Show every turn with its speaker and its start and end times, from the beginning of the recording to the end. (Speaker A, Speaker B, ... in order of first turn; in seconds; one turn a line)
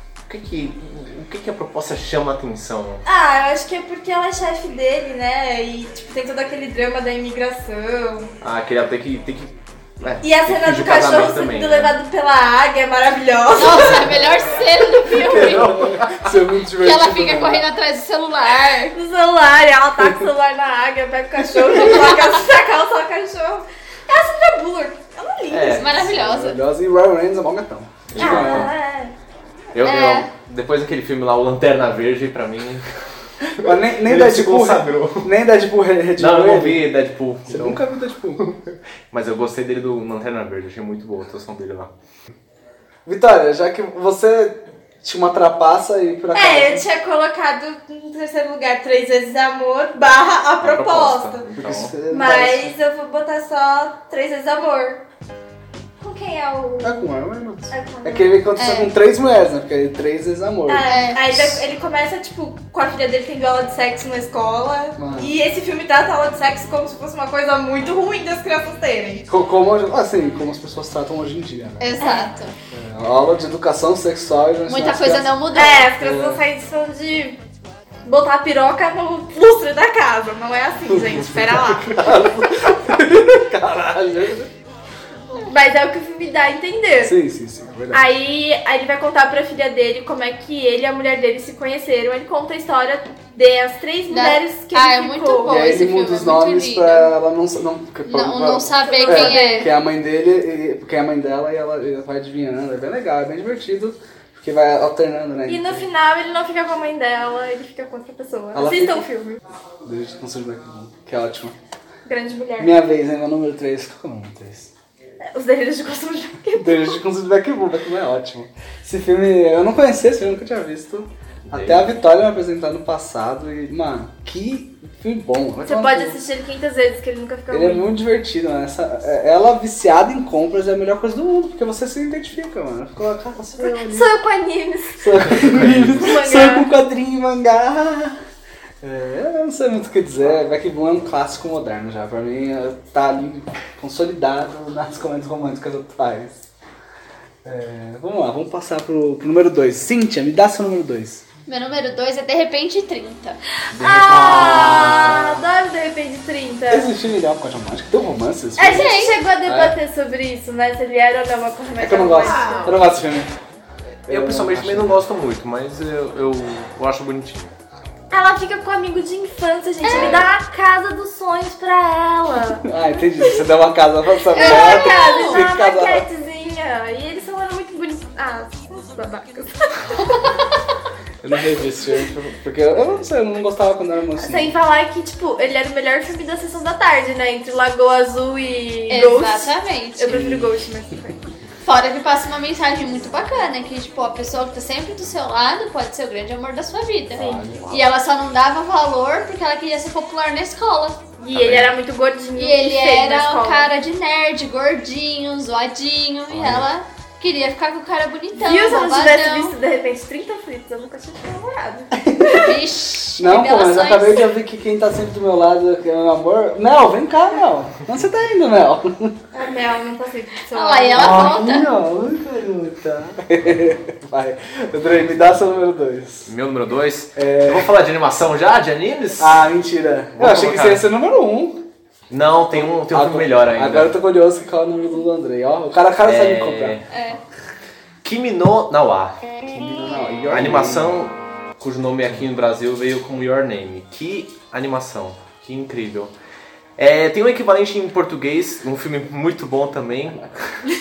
Speaker A: 0.3-3.0
Speaker B: 3.0-8.3
Speaker A: 8.4-12.0
Speaker B: 10.2-14.0
Speaker C: 13.5-15.7
Speaker D: 13.9-14.5
Speaker D: 15.1-17.6
Speaker A: 15.2-16.3
Speaker C: 16.8-18.9
Speaker B: 18.9-26.1
Speaker A: 25.5-26.1
Speaker C: 25.7-26.6
Speaker D: 26.0-28.7
Speaker A: 28.1-28.7
Speaker B: 28.2-29.1
Speaker A: 29.7-32.9
Speaker C: 29.8-30.3
Speaker D: 33.5-36.9
Speaker A: 33.6-35.3
Speaker A: 36.2-37.8
Speaker D: 37.5-38.4
Speaker A: 38.4-41.9
Speaker D: 43.0-46.8
Speaker B: 46.3-51.5
Speaker A: 50.6-51.9
Speaker D: 51.6-52.7
Speaker B: 52.1-55.0
Speaker B: 56.0-57.1
Speaker D: 56.8-61.6
Speaker B: 57.7-58.3
Speaker C: 58.5-58.9
Speaker B: 60.7-69.2
Speaker C: 60.9-61.3
Speaker D: 65.0-65.3
Speaker D: 69.3-71.9
Speaker C: 71.8-72.5
Speaker B: 72.0-72.3
Speaker D: 72.7-75.4
Speaker C: 74.7-75.9
Speaker B: 75.5-77.4
Speaker D: 76.0-76.4
Speaker B: 78.0-82.2
Speaker D: 80.9-84.5
Speaker B: 85.3-87.1
Speaker D: 87.0-88.0
Speaker B: 87.9-95.7
Speaker C: 94.1-97.1
Speaker D: 95.4-105.9
Speaker C: 98.0-99.7
Speaker B: 98.8-99.7
Speaker B: 105.5-109.4
Speaker D: 108.5-109.0
Speaker D: 109.8-111.5
Speaker B: 112.0-112.7
Speaker D: 112.6-114.7
Speaker B: 115.3-116.9
Speaker D: 116.5-126.2
Speaker A: 121.5-121.9
Speaker B: 125.6-127.9
Speaker D: 127.5-134.1
Speaker B: 133.6-135.1
Speaker D: 135.0-138.2
Speaker A: 135.5-136.0
Speaker B: 135.9-136.7
Speaker D: 138.8-146.4
Speaker D: 147.4-151.2
Speaker C: 151.5-153.4
Speaker A: 153.7-155.3
Speaker B: 153.8-156.9
Speaker D: 154.1-155.4
Speaker D: 156.7-159.8
Speaker B: 158.6-162.7
Speaker C: 158.7-159.2
Speaker D: 161.8-163.3
Speaker A: 162.2-162.9
Speaker D: 164.1-165.0
Speaker A: 164.1-167.5
Speaker B: 168.1-172.7
Speaker C: 169.8-170.2
Speaker A: 169.9-170.3
Speaker D: 172.6-176.1
Speaker B: 174.3-180.3
Speaker C: 174.3-175.4
Speaker D: 181.2-184.6
Speaker B: 184.2-191.2
Speaker C: 188.9-190.3
Speaker D: 190.1-190.5
Speaker C: 191.6-201.0
Speaker B: 197.2-197.5
Speaker D: 197.2-197.6
Speaker A: 197.2-197.8
Speaker B: 201.2-203.7
Speaker A: 201.3-201.7
Speaker C: 202.3-209.5
Speaker B: 208.3-212.5
Speaker D: 211.9-212.6
Speaker C: 212.3-214.3
Speaker D: 213.2-219.2
Speaker B: 219.3-221.4
Speaker C: 220.5-221.7
Speaker D: 220.9-226.3
Speaker A: 226.2-229.4
Speaker D: 227.2-227.7
Speaker D: 229.2-231.6
Speaker A: 230.2-230.9
Speaker A: 232.1-234.0
Speaker D: 232.5-236.8
Speaker A: 236.0-236.8
Speaker C: 236.9-237.2
Speaker A: 238.0-239.2
Speaker D: 239.5-241.0
Speaker A: 240.3-246.1
Speaker A: 246.8-250.6